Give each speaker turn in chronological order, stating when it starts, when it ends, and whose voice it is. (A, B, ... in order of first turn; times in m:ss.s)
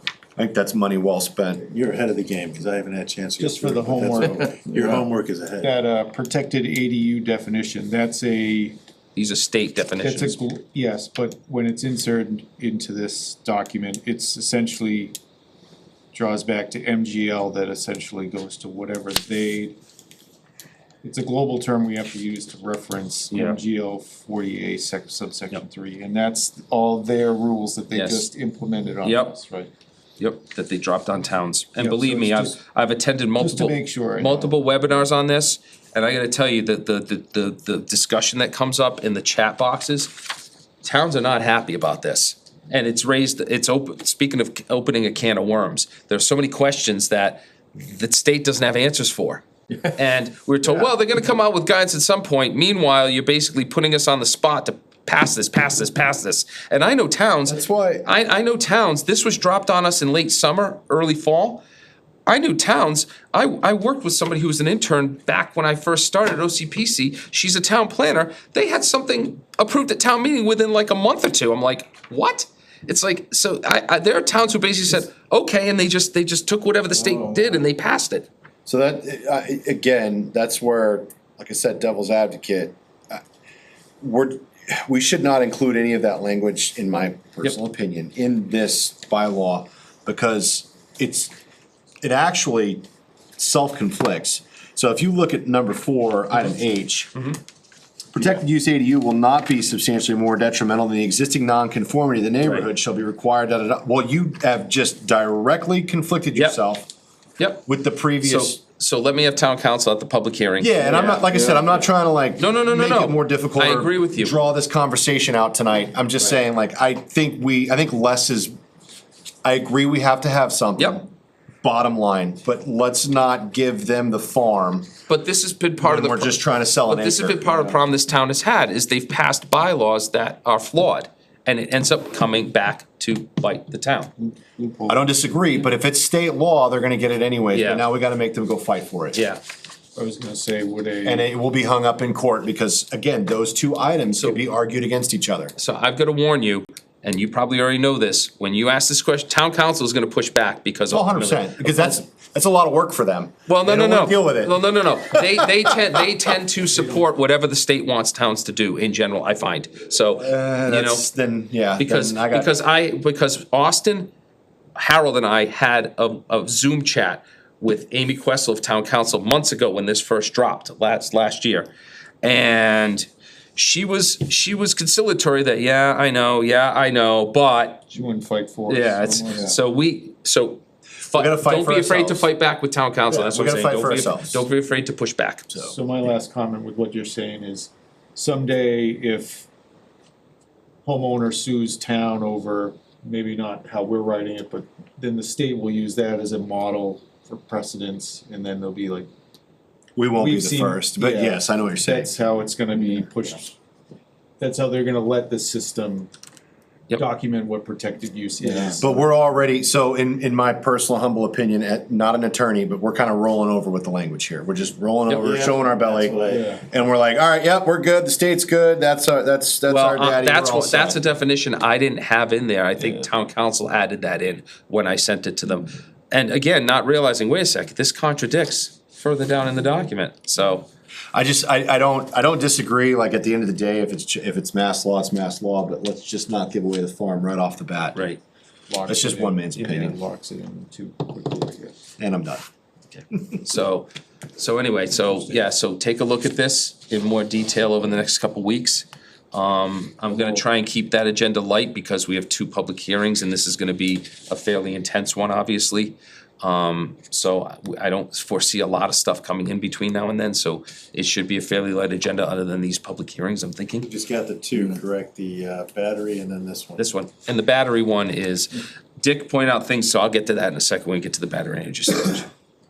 0:00.4-0:01.7 A
0:01.7-0:05.7 B
0:03.4-0:05.0 C
0:05.6-0:08.8 C
0:09.2-0:10.4 D
0:10.0-0:15.2 C
0:16.1-0:19.8 C
0:21.0-0:29.7 C
0:23.3-0:23.6 D
0:27.9-0:28.3 D
0:29.0-0:29.4 D
0:30.2-0:40.1 D
0:31.8-0:32.6 C
0:33.4-0:34.6 C
0:40.8-1:01.6 D
0:57.5-0:58.1 A
1:02.3-1:18.3 D
1:18.7-1:23.2 A
1:24.0-1:31.3 A
1:32.0-1:32.8 A
1:33.4-1:37.1 A
1:38.1-1:46.9 A
1:47.4-1:47.7 D
1:47.7-1:48.6 A
1:48.2-1:51.5 D
1:50.6-1:58.5 A
1:52.4-1:54.4 D
1:59.4-2:01.1 A
2:01.6-2:04.9 A
2:05.1-2:14.1 D
2:05.8-2:07.6 A
2:14.2-2:15.2 C
2:14.9-2:19.2 A
2:17.5-2:17.8 D
2:19.1-2:19.4 D
2:20.0-2:21.3 C
2:21.0-2:25.6 A
2:25.6-2:32.0 D
2:30.9-2:34.6 A
2:33.5-2:41.1 D
2:35.1-2:36.0 A
2:36.8-2:37.0 C
2:40.2-2:42.6 A
2:41.8-2:44.1 D
2:44.8-2:51.7 D
2:52.2-2:57.9 D
2:57.9-2:59.5 C
2:58.7-3:05.5 D
3:01.1-3:02.3 A
3:03.1-3:04.4 A
3:05.6-3:09.5 C
3:10.8-3:19.1 C
3:20.0-3:22.1 A
3:20.2-3:23.6 C
3:24.4-3:26.1 C
3:26.9-3:29.0 C
3:28.4-3:28.8 B
3:28.8-3:41.0 A
3:35.1-3:36.6 B
3:36.2-3:36.6 C
3:39.7-3:50.7 D
3:51.1-3:58.1 A
3:58.0-3:58.2 D
3:58.7-4:01.8 C
3:58.9-4:00.0 A
4:02.0-4:02.4 A
4:02.9-4:23.9 D
4:10.1-4:10.4 C
4:23.8-4:26.9 B
4:26.8-4:32.3 D